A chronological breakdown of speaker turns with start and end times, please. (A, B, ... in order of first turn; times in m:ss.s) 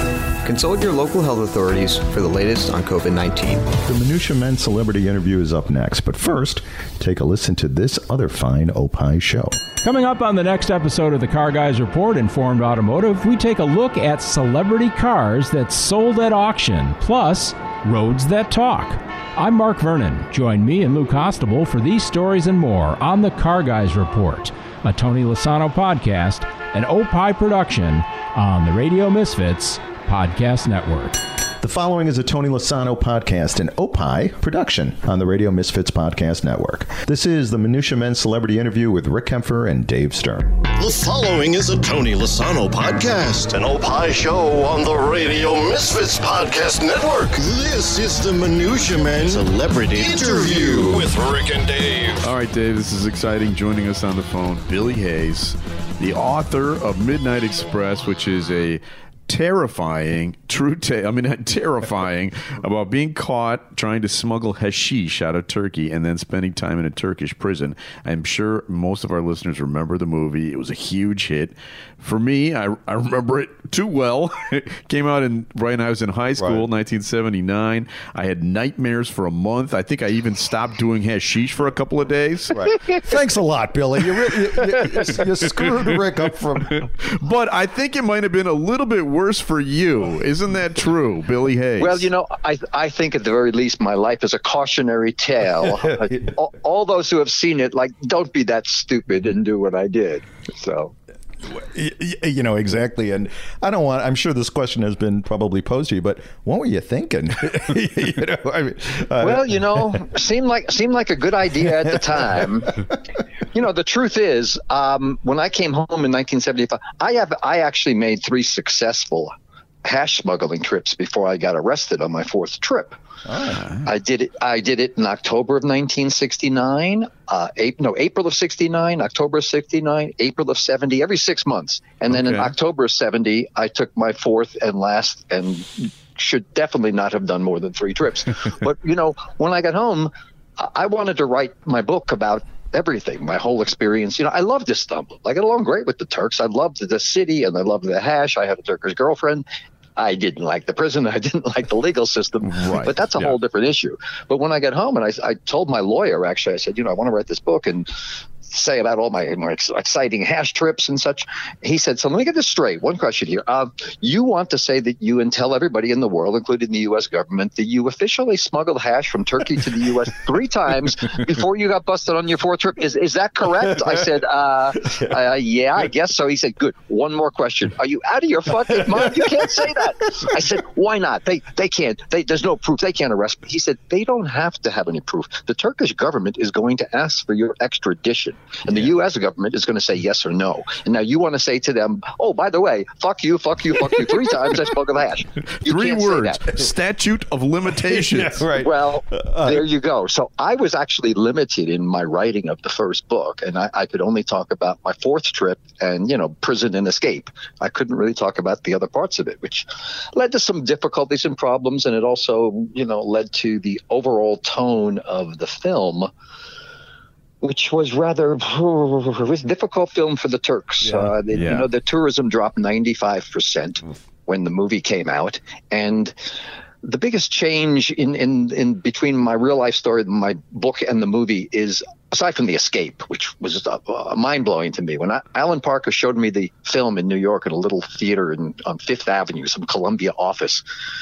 0:00.4-0:03.8 A
0:03.8-0:09.6 B
0:09.8-0:31.2 C
0:31.6-0:40.6 B
0:40.7-0:52.3 D
0:52.2-1:22.6 E
1:16.4-1:16.7 B
1:22.5-1:26.8 B
1:26.6-1:32.1 E
1:31.8-1:40.9 F
1:35.7-1:36.2 B
1:41.4-1:50.0 B
1:49.2-1:52.7 F
1:51.6-1:52.5 B
1:53.5-1:59.3 F
1:59.8-2:03.0 F
2:03.3-2:03.6 B
2:03.6-2:03.8 E
2:03.8-2:29.5 F
2:12.1-2:12.5 E
2:30.0-2:37.9 F
2:32.4-2:33.4 E
2:38.5-3:16.4 F
3:15.6-3:18.4 E
3:17.8-3:19.7 B
3:18.6-3:36.1 F
3:37.4-3:46.2 F
3:41.3-3:41.7 E
3:46.8-4:00.6 F